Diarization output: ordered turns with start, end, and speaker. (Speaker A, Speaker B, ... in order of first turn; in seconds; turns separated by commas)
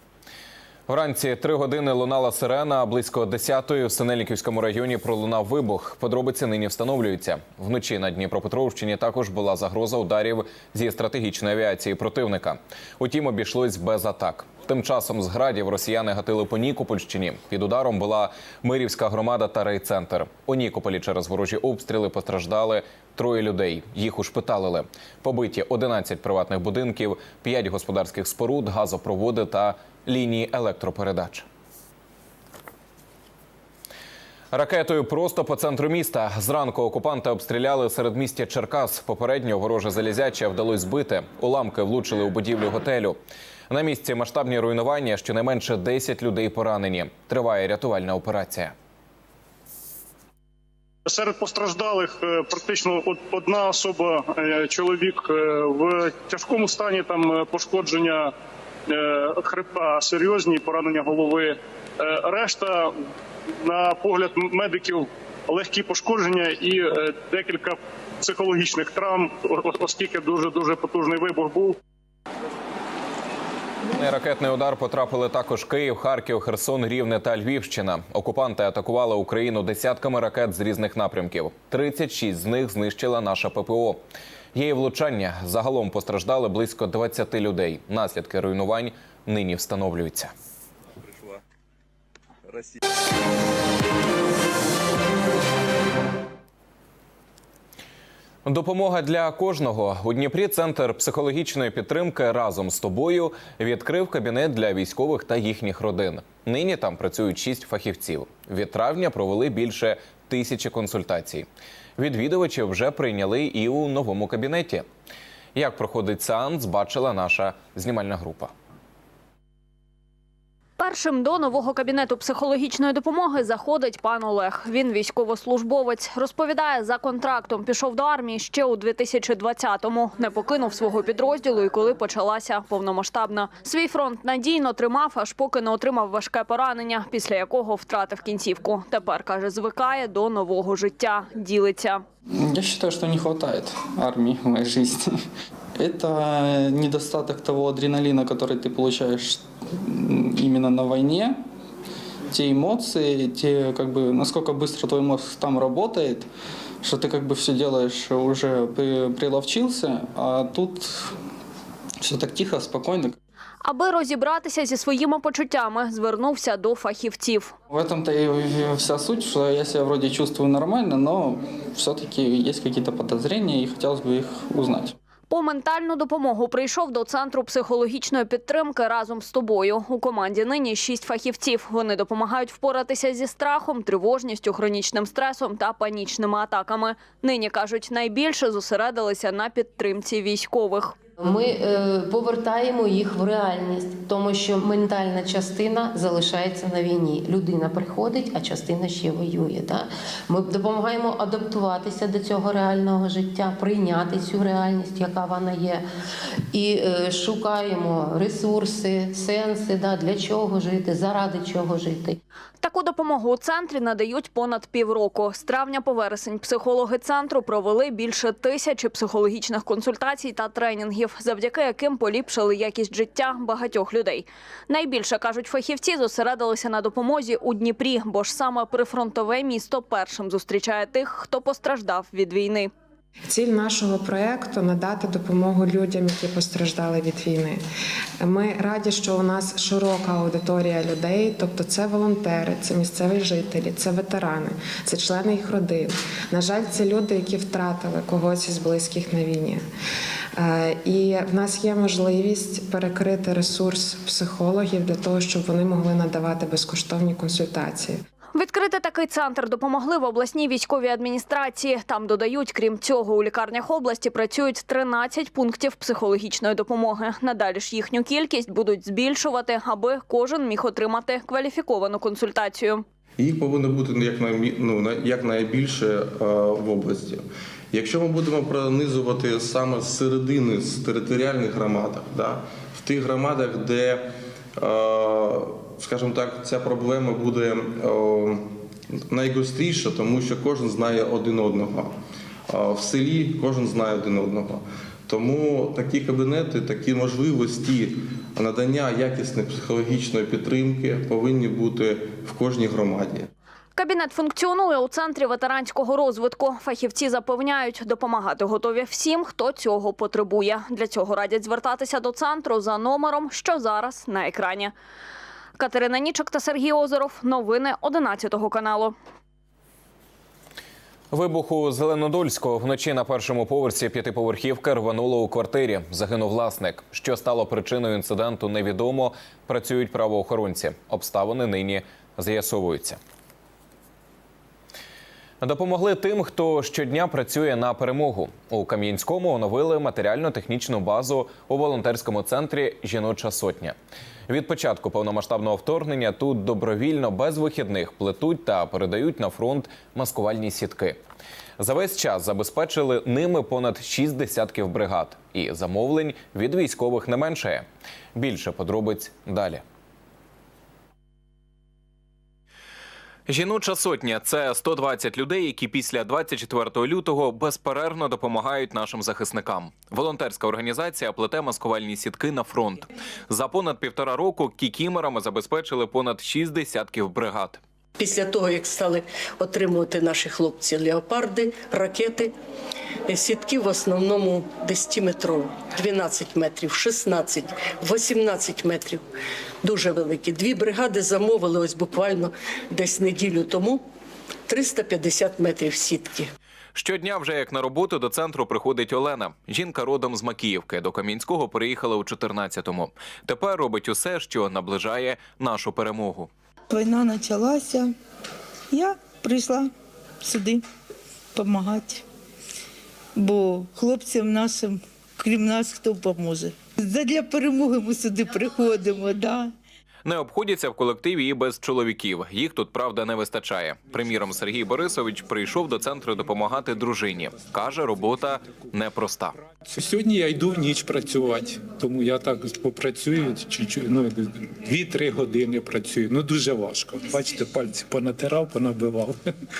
Speaker A: 0.9-31.4, Speaker A: 34.5-43.2, Speaker A: 43.7-48.7, Speaker B: 51.1-58.3, Speaker B: 59.0-61.5, Speaker B: 62.1-62.7, Speaker B: 63.6-71.7, Speaker A: 73.9-84.0, Speaker A: 84.5-90.3, Speaker A: 98.5-111.5, Speaker A: 112.0-114.8, Speaker A: 115.5-118.5, Speaker C: 120.8-142.0, Speaker D: 142.3-145.2, Speaker D: 145.8-151.4, Speaker D: 152.3-156.3, Speaker D: 156.8-161.1, Speaker D: 162.0-163.2, Speaker C: 163.6-167.5, Speaker D: 167.7-174.9, Speaker C: 175.3-190.9, Speaker E: 191.2-205.8, Speaker E: 206.5-212.2, Speaker C: 212.6-232.7, Speaker F: 233.3-237.6, Speaker F: 238.2-249.6, Speaker F: 250.4-258.0, Speaker C: 258.3-272.8, Speaker G: 273.2-288.5, Speaker G: 289.1-291.9, Speaker G: 292.5-303.3, Speaker C: 303.8-314.7, Speaker C: 315.6-318.9, Speaker A: 321.1-333.0, Speaker A: 335.4-343.7, Speaker A: 344.3-351.0, Speaker A: 351.6-357.6, Speaker A: 358.1-359.6, Speaker A: 363.3-377.6, Speaker H: 377.9-382.3, Speaker H: 383.1-389.0, Speaker H: 389.6-393.8, Speaker H: 394.5-396.3, Speaker A: 396.7-406.3, Speaker I: 406.7-407.9, Speaker I: 408.7-410.6, Speaker I: 411.3-412.0, Speaker I: 413.1-419.5, Speaker A: 420.0-429.3, Speaker J: 429.7-439.2